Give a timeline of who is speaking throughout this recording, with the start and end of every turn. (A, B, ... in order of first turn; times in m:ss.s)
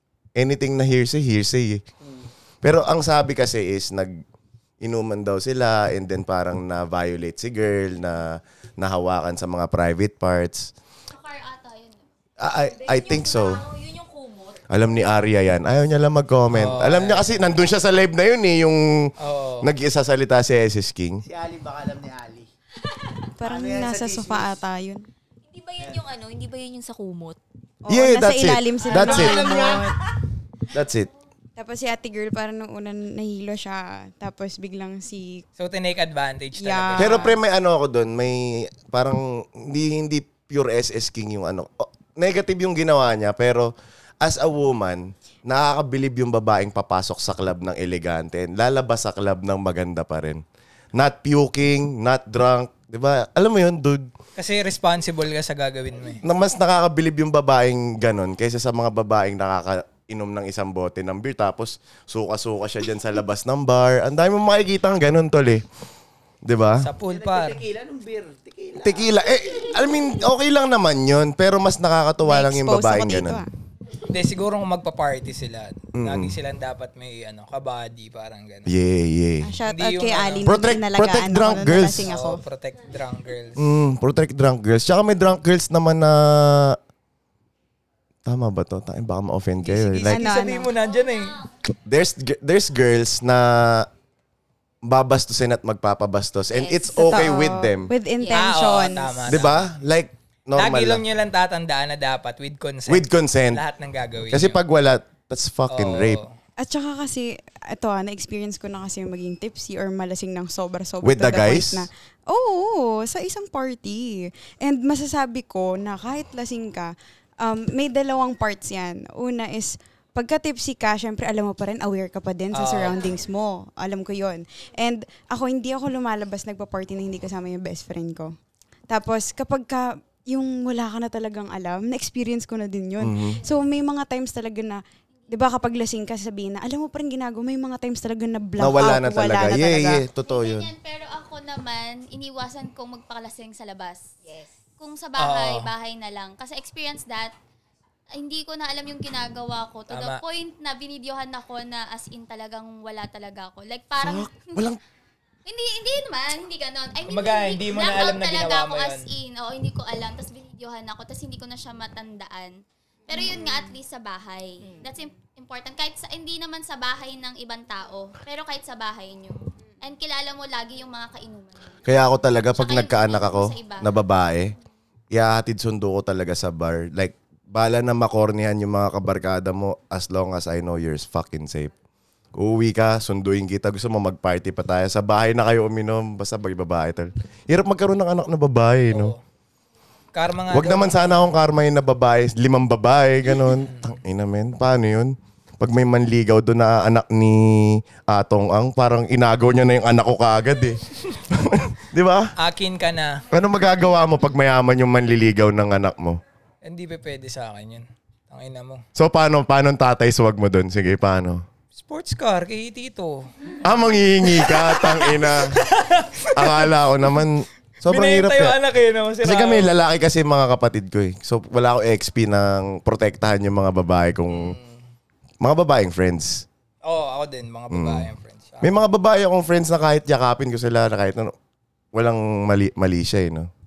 0:00.4-0:01.8 A
0:02.6-0:04.2 A
0:04.8-0:10.7 A
0:11.1-0:12.0 B
0:12.4-0:13.6 A
0:12.6-0:14.6 C
0:14.7-0:21.2 A
0:16.5-0:17.3 D
0:19.2-0:19.7 D
0:21.2-0:22.5 E
0:23.4-0:25.0 F
0:23.4-0:24.6 E
0:25.5-0:27.4 C
0:27.8-0:30.0 F
0:27.9-0:29.8 A
0:29.4-0:29.7 C
0:30.7-0:31.1 A
0:31.6-0:35.4 F
0:35.6-0:37.3 D
0:36.6-0:37.4 F
0:37.0-0:50.4 A
0:50.9-0:54.1 A
0:54.4-0:56.2 D
0:56.2-1:05.6 A
1:06.4-1:06.9 A
1:06.8-1:07.6 D
1:07.0-1:09.2 E
1:08.8-1:13.4 A
1:12.2-1:13.5 F
1:14.1-1:18.7 D
1:15.9-1:16.4 A
1:18.6-1:19.5 A
1:19.4-1:22.4 F
1:19.7-1:20.5 D
1:20.4-1:22.1 A
1:22.0-1:23.7 D
1:23.6-1:26.8 A
1:28.2-1:30.2 A
1:29.6-1:31.4 D
1:30.0-1:30.7 F
1:31.8-1:33.9 A
1:34.8-1:37.9 A
1:36.5-1:36.9 C
1:36.9-1:39.4 F
1:38.2-1:38.6 C
1:38.3-1:39.7 D
1:39.3-1:41.0 A
1:40.6-1:44.6 D
1:42.9-1:43.6 A
1:44.3-1:46.2 A
1:45.7-1:46.3 D
1:46.6-2:08.4 F
1:51.0-1:51.9 A
2:02.5-2:03.0 D
2:08.9-2:20.0 F
2:13.0-2:13.4 A
2:18.6-2:20.7 A
2:20.2-2:24.1 B
2:24.2-2:24.5 C
2:24.8-2:27.3 B
2:25.2-2:25.7 D
2:28.1-2:34.6 B
2:29.9-2:30.2 D
2:34.0-2:34.8 A
2:35.4-2:51.8 B
2:37.1-2:39.1 D
2:51.8-2:54.5 A
2:52.5-2:53.9 B
2:55.1-3:01.7 A
3:02.3-3:09.1 A
3:08.9-3:09.2 D
3:10.1-3:11.3 D
3:10.5-3:22.3 A
3:13.6-3:14.0 D
3:22.4-3:23.2 D
3:23.3-3:26.2 A
3:26.6-3:28.8 D
3:28.9-3:31.4 A
3:31.7-3:33.3 D
3:33.6-3:35.6 A
3:34.2-3:36.7 D
3:36.3-3:38.6 A
3:37.8-3:39.7 D
3:39.2-3:44.6 A
3:44.3-3:44.9 D
3:45.4-3:46.4 A
3:46.8-3:48.8 D
3:47.7-3:48.1 A
3:48.6-3:51.3 A
3:51.9-3:53.5 A